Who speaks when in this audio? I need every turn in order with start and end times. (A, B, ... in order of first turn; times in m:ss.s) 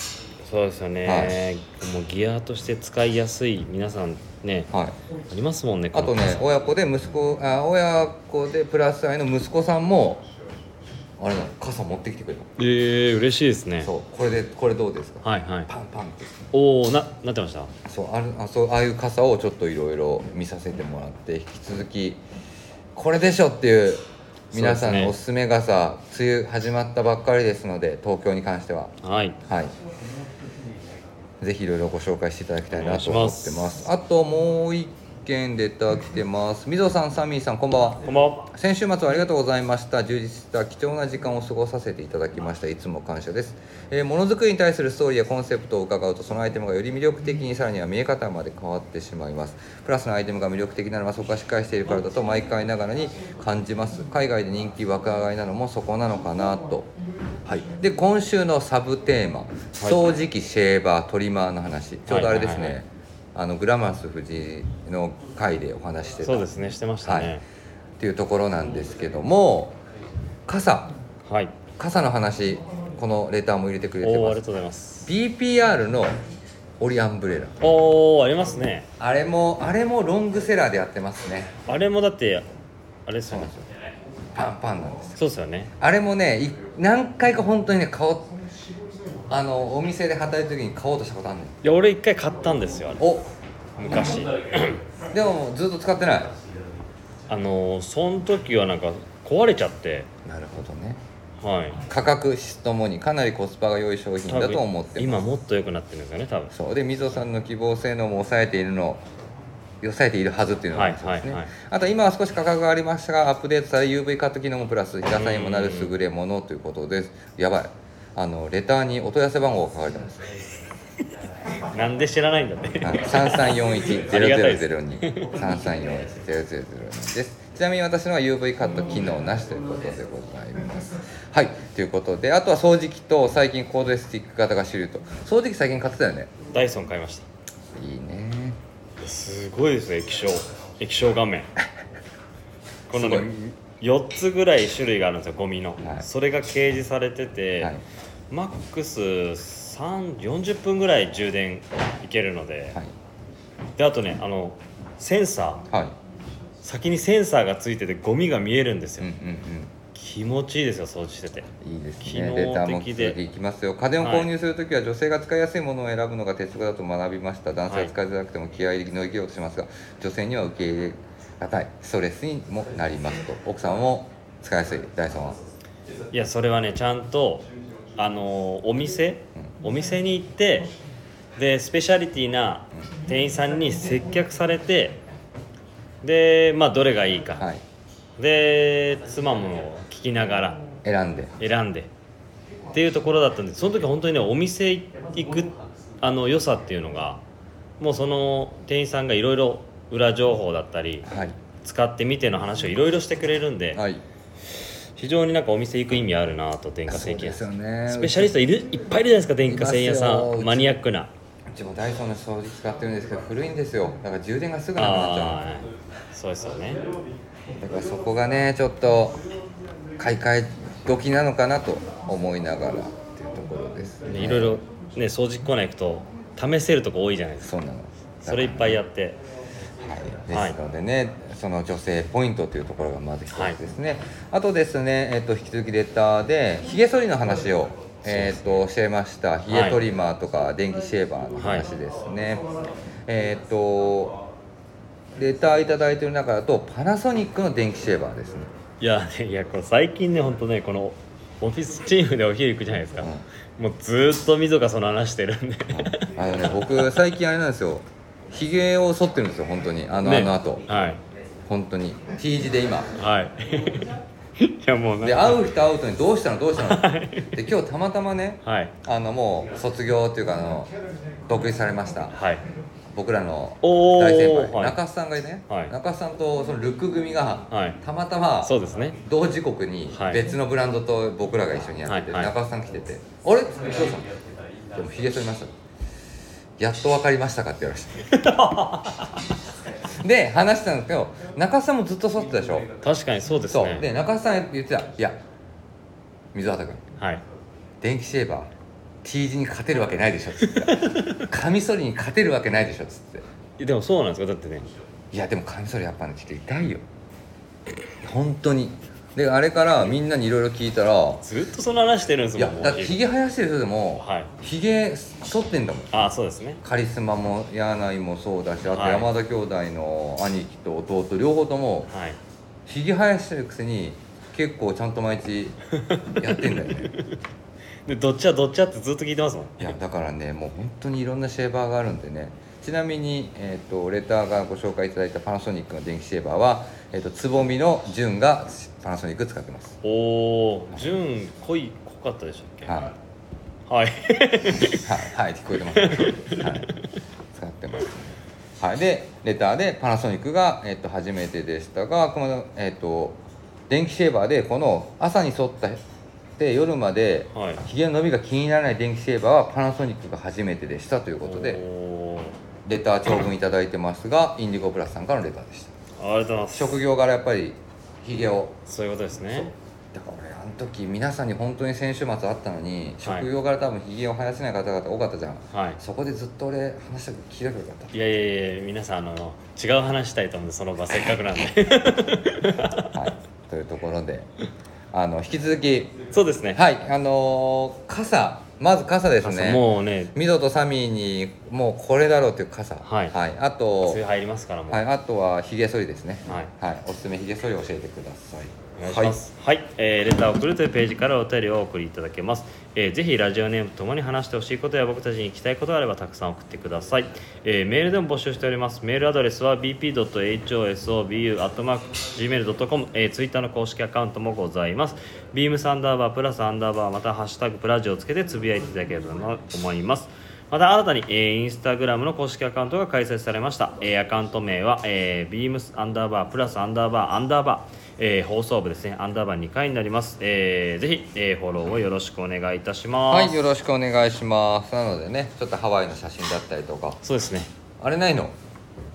0:00.4-0:04.7 A
0:01.0-0:01.4 B
0:04.7-0:05.0 B
0:05.3-0:06.4 A
0:05.9-0:10.2 B
0:11.2-0:12.5 B
0:12.6-0:13.9 A
0:13.8-0:16.5 B
0:15.2-0:15.7 A
0:16.5-0:17.7 A
0:17.8-0:22.2 B
0:22.9-0:29.7 B
0:24.5-0:25.1 A
0:29.0-0:29.4 A
0:31.4-0:56.9 B
0:32.7-0:33.8 A
0:38.0-0:38.5 A
0:57.4-1:06.5 B
1:02.1-1:02.8 A
1:06.2-1:07.4 A
1:07.0-1:07.4 B
1:08.0-1:09.8 B
1:10.5-1:10.9 B
1:11.2-1:11.6 A
1:11.8-1:14.4 B
1:14.0-1:15.1 A
1:15.1-1:16.2 B
1:16.8-1:17.7 B
1:17.6-1:18.9 A
1:19.0-1:21.5 B
1:21.7-1:22.4 A
1:23.1-1:23.5 A
1:23.2-1:23.6 B
1:24.3-1:25.2 B
1:25.2-1:25.7 A
1:25.8-1:28.3 B
1:29.3-1:31.6 B
1:31.6-1:33.0 A
1:33.0-1:33.3 B
1:33.8-1:34.8 A
1:35.1-1:36.3 B
1:37.3-1:40.1 A
1:40.2-1:41.0 B
1:41.4-1:41.8 A
1:41.8-1:45.2 B
1:44.2-1:46.5 A
1:46.5-1:49.0 B
1:49.8-2:00.4 B
1:50.7-1:51.5 A
1:55.2-1:55.9 A
2:01.5-2:05.3 A
2:02.8-2:16.3 B
2:16.5-2:17.2 A
2:17.7-2:18.6 B
2:19.0-2:21.5 A
2:22.9-2:27.7 A
2:22.9-2:23.3 B
2:25.8-2:26.0 B
2:28.3-2:32.8 A
2:33.8-2:35.7 A
2:35.7-2:36.0 B
2:36.6-2:39.1 A
2:39.0-2:39.7 B
2:39.9-2:41.5 A
2:41.6-2:55.4 B
2:42.0-2:43.2 A
2:44.0-2:44.3 A
2:56.1-3:00.7 A
3:01.4-3:05.0 A
3:06.0-3:07.5 A
3:08.2-3:10.6 A
3:10.8-3:11.3 B
3:11.4-3:11.9 A
3:12.7-3:17.2 A
3:17.8-3:21.1 A
3:21.0-3:21.4 B
3:21.6-3:23.8 A
3:23.7-3:24.0 B
3:24.5-3:31.1 A
3:26.9-3:28.4 B
3:29.4-3:30.8 B
3:31.5-3:35.4 B
3:34.8-3:36.9 A
3:37.6-3:39.2 B
3:40.0-3:44.6 B
3:44.1-3:47.5 A
3:47.4-3:48.8 B
3:48.2-3:49.2 A
3:49.8-4:02.4 B
3:50.3-3:50.6 A
3:58.1-3:58.6 A
3:59.5-3:59.8 A
4:01.4-4:01.7 A
4:03.1-4:04.2 B
4:05.2-4:08.5 B
4:08.8-4:16.1 A
4:15.7-4:20.7 B
4:20.0-4:21.0 A
4:21.4-4:22.9 B
4:22.9-4:25.4 A
4:25.0-4:30.7 B
4:26.6-4:27.4 A
4:28.4-4:28.7 A
4:31.3-4:32.2 B
4:32.1-4:32.4 A
4:32.9-4:44.2 B
4:33.6-4:34.8 A
4:35.5-4:35.7 A
4:37.5-4:37.8 A
4:38.4-4:39.0 A
4:39.9-4:40.3 A
4:41.9-4:42.3 A
4:44.7-4:45.5 B
4:46.6-4:48.2 B
4:48.1-4:49.2 A
4:49.9-4:52.8 B
4:52.8-4:53.9 A
4:53.5-4:55.2 B
4:56.3-4:56.8 B
4:57.8-4:58.5 B
4:59.0-5:03.2 B
5:00.6-5:01.2 A
5:03.6-5:04.7 A
5:05.1-5:06.8 B
5:08.0-5:11.2 B
5:11.2-5:13.0 A
5:12.4-5:21.9 B
5:14.0-5:14.3 A
5:15.9-5:16.6 A
5:18.6-5:19.1 A
5:21.9-5:22.2 A
5:22.6-5:25.6 B
5:25.8-5:27.2 A
5:26.2-5:26.9 B
5:27.8-5:29.7 A
5:29.6-5:39.8 B
5:39.8-5:42.9 A
5:42.6-5:42.9 B
5:43.7-5:45.0 A
5:44.6-5:46.7 B
5:45.8-5:46.8 A
5:47.3-5:55.8 B
5:56.4-6:01.6 B
5:57.3-5:57.6 A
6:01.2-6:02.3 A
6:02.6-6:05.7 B
6:06.0-6:06.8 A
6:06.5-6:08.6 B
6:08.7-6:09.5 A
6:09.9-6:17.9 B
6:15.5-6:15.8 A
6:17.9-6:23.0 A
6:22.9-6:24.3 B
6:24.9-6:26.0 B
6:26.1-6:26.6 A
6:26.5-6:34.0 B
6:29.2-6:30.1 A
6:32.8-6:33.1 A
6:33.8-6:34.8 A
6:34.7-6:39.2 B
6:38.8-7:13.4 A
7:13.1-7:17.0 B
7:17.0-7:17.5 A
7:17.8-7:18.3 B